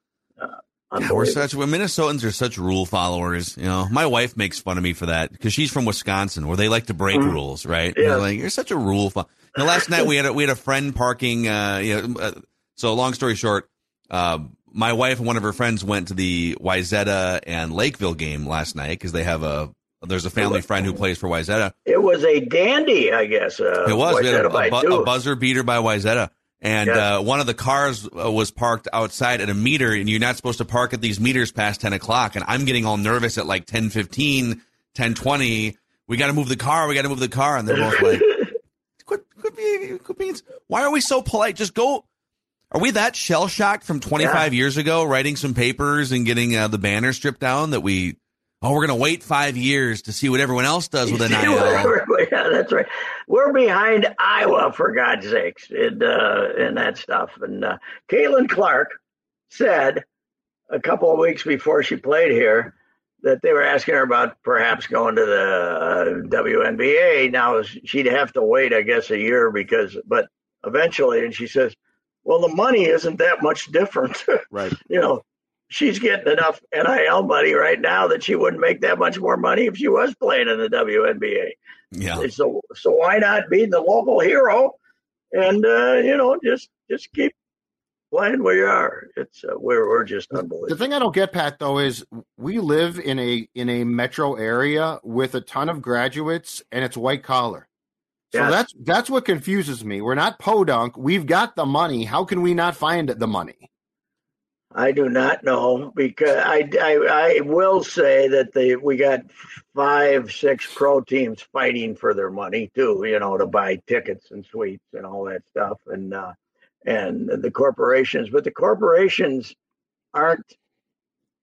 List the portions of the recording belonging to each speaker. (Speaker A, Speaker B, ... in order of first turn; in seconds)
Speaker A: 0.4-1.4, 7.9-8.3, 20.4-20.6, 21.9-25.1, 37.9-38.5, 44.2-44.5, 51.0-58.9, 59.5-60.0, 60.7-81.5, 82.1-84.8, 85.3-87.3, 88.1-90.8, 98.3-98.6, 104.7-116.3, 116.8-119.5, 120.1-120.5
Speaker B: 1.0-21.7, 23.8-38.4, 39.0-42.0, 42.7-51.9, 81.9-82.3
Speaker C: 74.5-74.8, 90.3-97.7, 98.3-103.7